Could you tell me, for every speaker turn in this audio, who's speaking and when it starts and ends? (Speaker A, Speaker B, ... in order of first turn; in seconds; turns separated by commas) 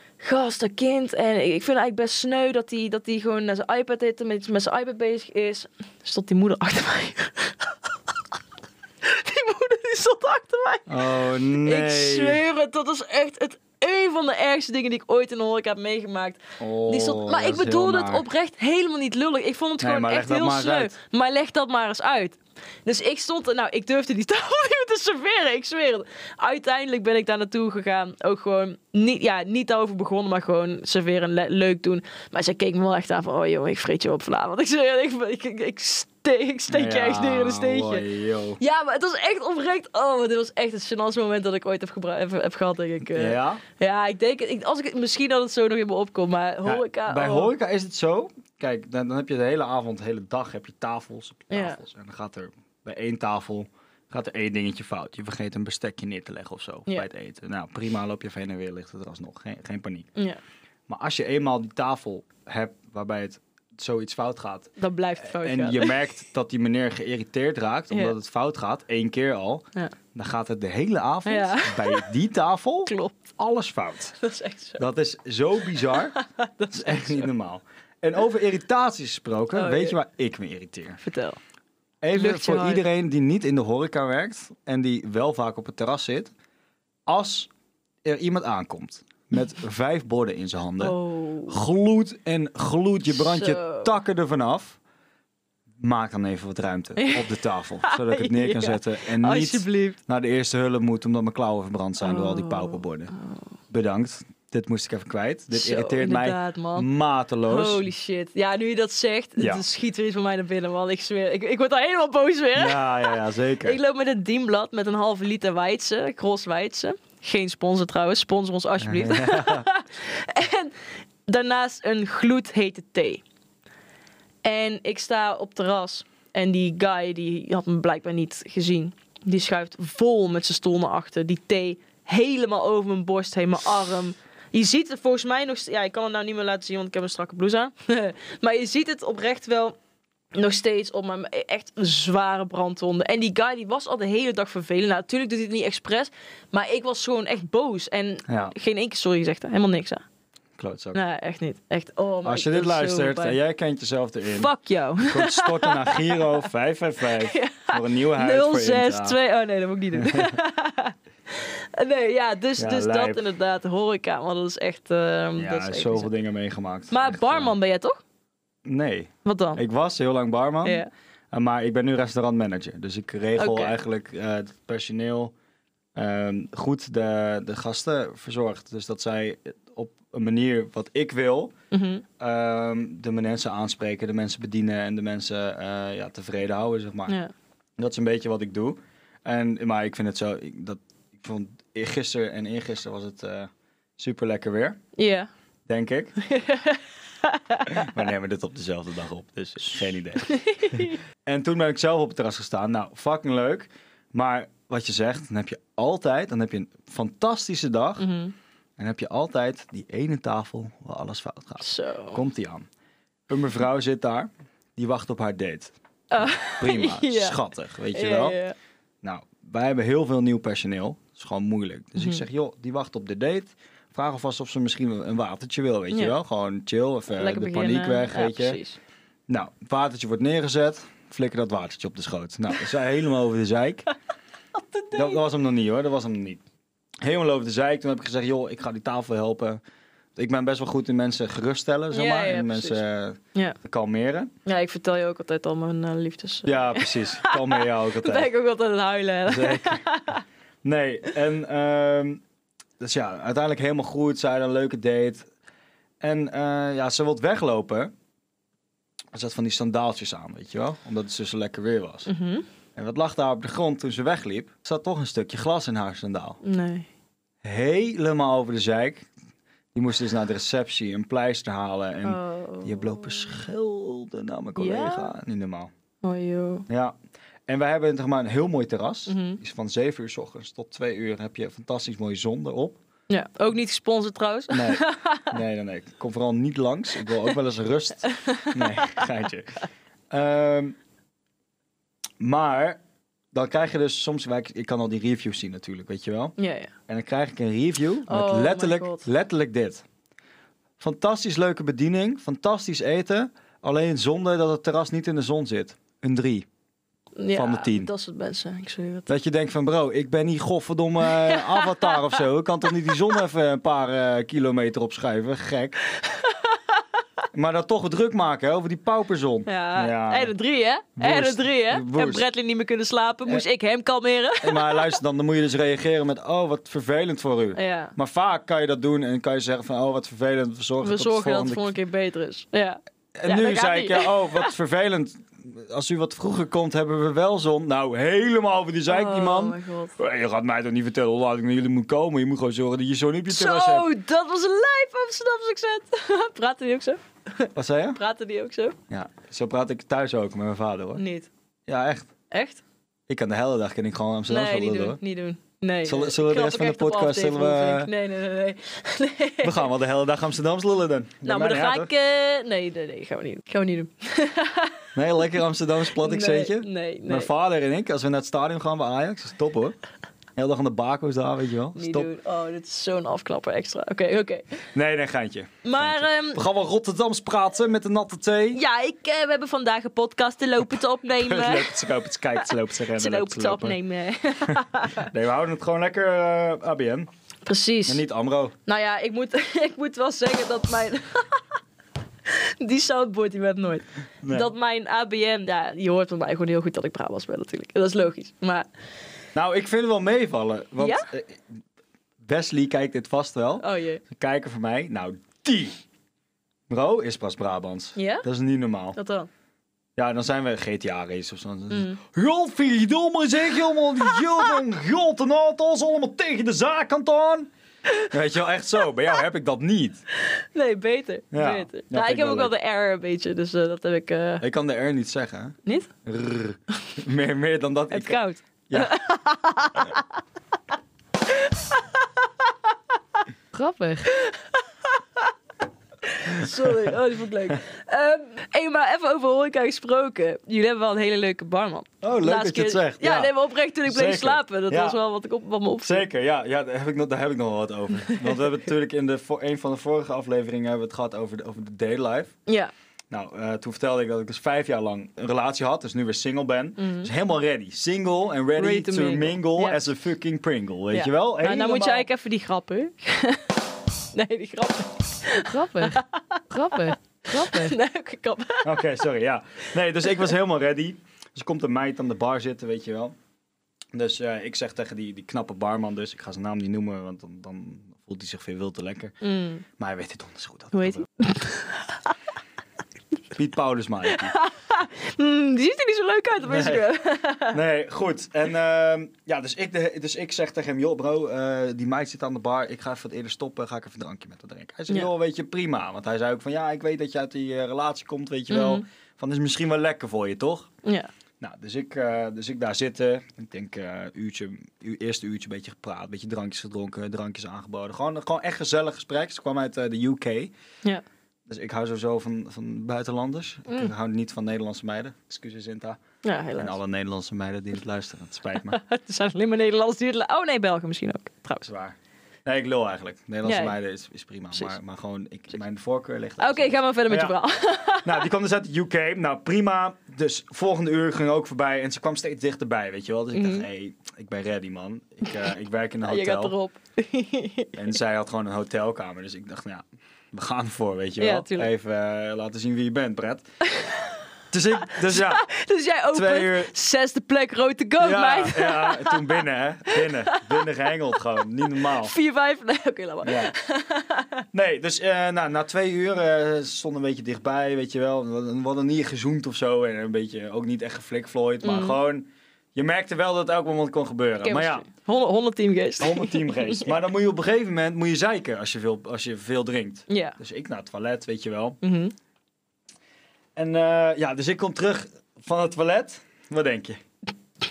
Speaker A: 0.2-7.7, Speaker A: 9.0-38.1, Speaker B: 10.9-12.4, Speaker B: 16.6-18.3, Speaker B: 19.8-20.9, Speaker B: 36.7-38.6, Speaker A: 38.6-47.5, Speaker B: 43.1-43.6, Speaker B: 46.6-60.1, Speaker A: 51.5-51.8, Speaker B: 60.9-74.2, Speaker A: 64.8-66.0, Speaker A: 71.3-72.1, Speaker A: 72.9-73.3, Speaker A: 74.2-74.8, Speaker B: 74.8-76.2, Speaker A: 76.1-77.3, Speaker B: 76.7-81.0, Speaker A: 79.5-80.0, Speaker A: 81.0-81.4, Speaker B: 82.0-86.3, Speaker A: 82.2-82.8, Speaker B: 87.1-87.5, Speaker B: 88.0-91.0, Speaker A: 90.8-91.6, Speaker B: 91.5-94.8, Speaker A: 93.1-93.9, Speaker B: 95.8-103.1, Speaker A: 97.0-97.3, Speaker A: 97.8-100.0, Speaker A: 102.0-103.4, Speaker B: 103.7-107.8, Speaker A: 105.5-106.9, Speaker A: 107.5-120.8, Speaker B: 109.4-109.6, Speaker B: 112.6-113.8, Speaker B: 118.8-119.7, Speaker A: 121.3-123.2, Speaker A: 124.4-139.8, Speaker A: 140.3-150.0, Speaker B: 148.3-148.5, Speaker B: 150.6-151.0, Speaker A: 150.9-153.4, Speaker B: 152.2-159.2, Speaker A: 154.3-156.2, Speaker A: 157.2-166.1, Speaker B: 159.9-160.4, Speaker B: 162.6-163.2, Speaker B: 165.4-167.5, Speaker A: 166.9-168.0, Speaker B: 168.7-175.3, Speaker A: 169.2-169.6, Speaker A: 170.6-170.9, Speaker A: 173.4-173.8, Speaker B: 175.9-181.5, Speaker A: 181.7-182.1, Speaker B: 182.2-187.2, Speaker B: 187.8-194.8, Speaker A: 195.0-195.3, Speaker B: 195.7-196.2, Speaker A: 196.2-197.8, Speaker B: 197.7-208.1, Speaker A: 200.2-201.0, Speaker A: 208.0-208.3, Speaker B: 208.8-212.7, Speaker A: 211.6-212.2, Speaker B: 213.3-215.7, Speaker A: 216.1-217.4, Speaker B: 216.4-218.4, Speaker A: 217.9-218.6, Speaker B: 219.0-228.6, Speaker A: 222.0-222.2, Speaker A: 227.2-228.8, Speaker B: 229.3-233.9, Speaker A: 234.6-235.2, Speaker B: 234.9-236.4, Speaker B: 237.0-239.6, Speaker B: 240.2-244.3, Speaker A: 241.9-242.8, Speaker A: 244.5-250.2, Speaker B: 246.5-248.3, Speaker B: 249.3-249.8, Speaker B: 250.6-252.2, Speaker B: 252.8-255.3, Speaker B: 256.0-257.9, Speaker B: 259.1-262.1, Speaker A: 262.1-262.5, Speaker B: 262.8-266.4, Speaker A: 266.4-266.9, Speaker B: 267.4-269.1, Speaker B: 269.7-275.7, Speaker A: 272.0-273.3, Speaker A: 274.6-275.1, Speaker A: 276.0-276.7, Speaker B: 276.7-277.0, Speaker B: 277.5-282.8, Speaker A: 279.1-279.4, Speaker A: 283.1-285.4, Speaker B: 284.5-290.8, Speaker A: 288.1-289.0, Speaker B: 292.2-292.8, Speaker B: 293.3-296.4, Speaker A: 296.4-296.7, Speaker B: 296.9-299.8, Speaker A: 298.1-299.1, Speaker B: 300.8-306.5, Speaker A: 307.2-309.1, Speaker B: 307.3-307.9, Speaker B: 309.1-315.8, Speaker A: 311.1-312.1, Speaker A: 316.1-316.6, Speaker B: 317.3-320.3, Speaker A: 319.5-324.9, Speaker B: 321.0-322.3, Speaker B: 324.4-331.7, Speaker A: 327.6-327.9, Speaker A: 330.8-334.5, Speaker B: 333.2-343.9, Speaker A: 338.9-340.0, Speaker A: 343.3-348.8, Speaker B: 347.6-348.0, Speaker B: 348.9-351.0, Speaker A: 351.0-351.3, Speaker B: 351.7-352.1, Speaker A: 352.3-352.6, Speaker B: 353.1-355.0, Speaker A: 354.3-359.7, Speaker B: 355.9-357.9, Speaker B: 359.4-361.9, Speaker A: 361.2-364.9, Speaker B: 364.9-369.8, Speaker A: 365.9-367.3, Speaker B: 370.4-372.1, Speaker A: 371.8-374.6, Speaker B: 374.7-378.6, Speaker A: 375.6-376.4, Speaker A: 378.5-381.8, Speaker B: 381.2-383.8, Speaker A: 382.9-385.1, Speaker B: 384.5-387.1, Speaker A: 387.5-388.0, Speaker B: 387.9-388.5, Speaker A: 388.7-391.4, Speaker A: 392.3-398.7, Speaker B: 394.2-394.5, Speaker B: 399.4-401.4, Speaker A: 400.8-401.1, Speaker B: 402.2-405.8, Speaker A: 403.6-404.0, Speaker B: 406.7-409.0, Speaker A: 408.0-408.2, Speaker A: 408.9-409.3, Speaker B: 410.0-417.5, Speaker A: 411.7-412.0, Speaker B: 418.1-420.0, Speaker A: 420.2-424.4, Speaker B: 421.3-422.5, Speaker B: 424.4-429.0, Speaker A: 425.7-425.9, Speaker A: 427.9-430.1, Speaker A: 431.3-432.3, Speaker C: 433.5-434.1, Speaker A: 434.1-435.3, Speaker A: 436.1-446.1, Speaker B: 436.3-437.0, Speaker B: 442.0-445.0, Speaker B: 445.8-452.4, Speaker A: 448.1-448.4, Speaker A: 452.5-452.7, Speaker B: 453.1-462.1, Speaker A: 456.8-457.1, Speaker A: 458.6-459.9, Speaker A: 460.9-463.5, Speaker A: 464.1-466.4, Speaker C: 465.4-467.8, Speaker A: 467.3-468.9, Speaker B: 468.6-473.2, Speaker B: 473.9-479.1, Speaker A: 479.2-479.6, Speaker B: 479.8-481.1, Speaker A: 480.7-482.1, Speaker B: 483.3-484.3, Speaker A: 484.2-487.6, Speaker B: 486.5-486.9, Speaker B: 487.5-500.7, Speaker A: 498.5-498.9, Speaker A: 500.8-501.1, Speaker B: 501.4-510.5, Speaker B: 511.5-516.0, Speaker A: 516.2-516.8, Speaker B: 516.6-518.8, Speaker A: 518.7-521.6, Speaker B: 521.6-527.4, Speaker A: 523.4-523.8, Speaker A: 526.4-528.3, Speaker B: 528.0-536.5, Speaker A: 533.3-533.7, Speaker A: 536.0-537.8, Speaker B: 537.7-543.5, Speaker A: 541.2-541.7, Speaker A: 543.7-544.1, Speaker B: 544.5-545.4, Speaker A: 545.0-550.6, Speaker B: 546.1-546.7, Speaker B: 548.0-552.1, Speaker A: 551.7-554.4, Speaker B: 553.2-553.5, Speaker B: 554.5-564.9, Speaker A: 561.6-562.0, Speaker A: 564.4-566.9, Speaker B: 566.0-571.8, Speaker A: 570.1-570.4, Speaker A: 571.8-572.1, Speaker B: 573.6-577.0